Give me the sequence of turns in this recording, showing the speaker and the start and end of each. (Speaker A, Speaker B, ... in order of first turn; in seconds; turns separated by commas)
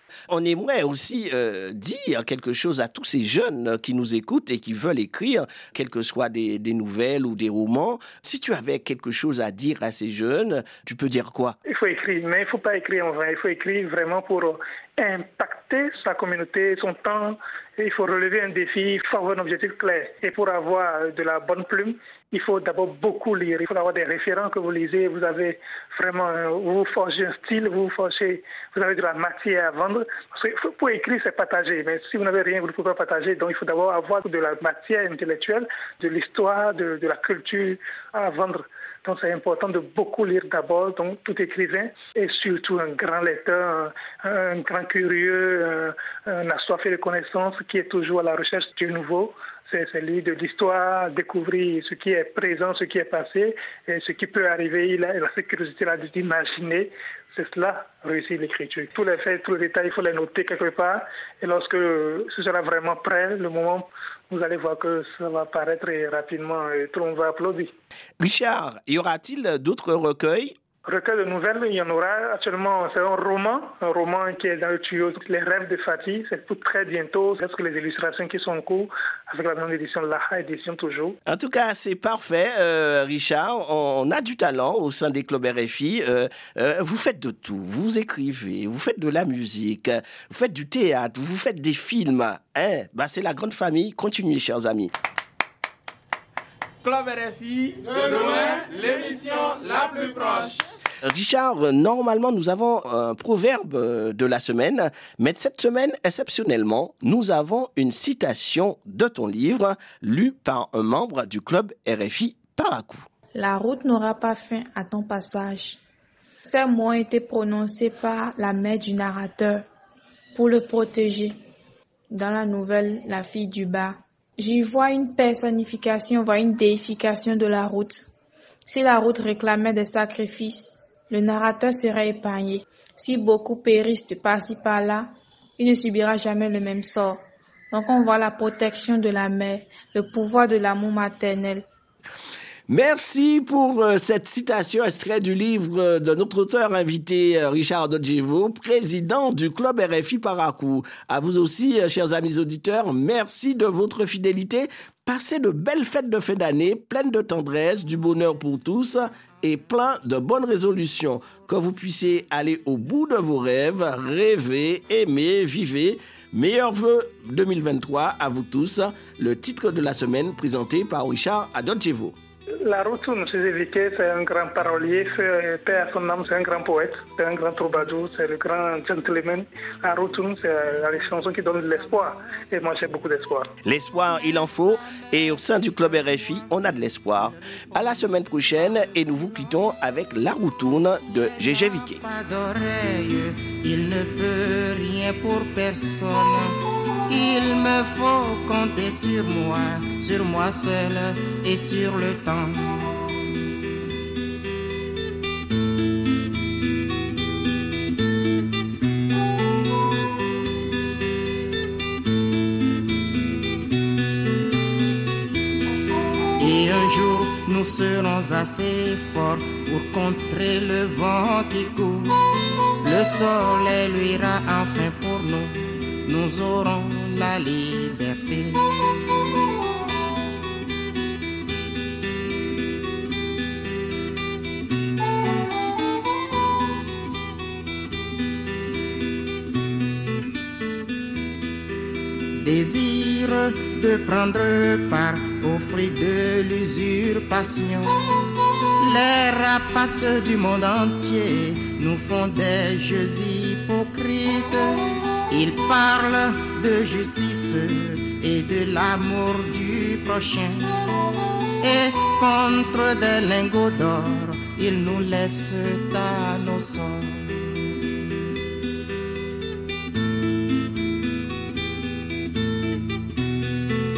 Speaker A: 0.3-11.6, Speaker B: 11.7-67.7, Speaker A: 68.2-70.5, Speaker B: 70.8-81.2, Speaker A: 81.3-94.9, Speaker C: 96.8-100.6, Speaker A: 101.0-113.1, Speaker D: 113.3-115.8, Speaker D: 116.5-119.6, Speaker D: 120.3-121.4, Speaker D: 122.1-128.1, Speaker D: 128.7-141.7, Speaker A: 142.7-172.2, Speaker B: 172.6-183.5, Speaker A: 183.6-192.0, Speaker E: 184.2-189.7, Speaker E: 190.6-203.0, Speaker E: 216.4-228.6, Speaker E: 242.4-260.7, Speaker E: 261.6-267.6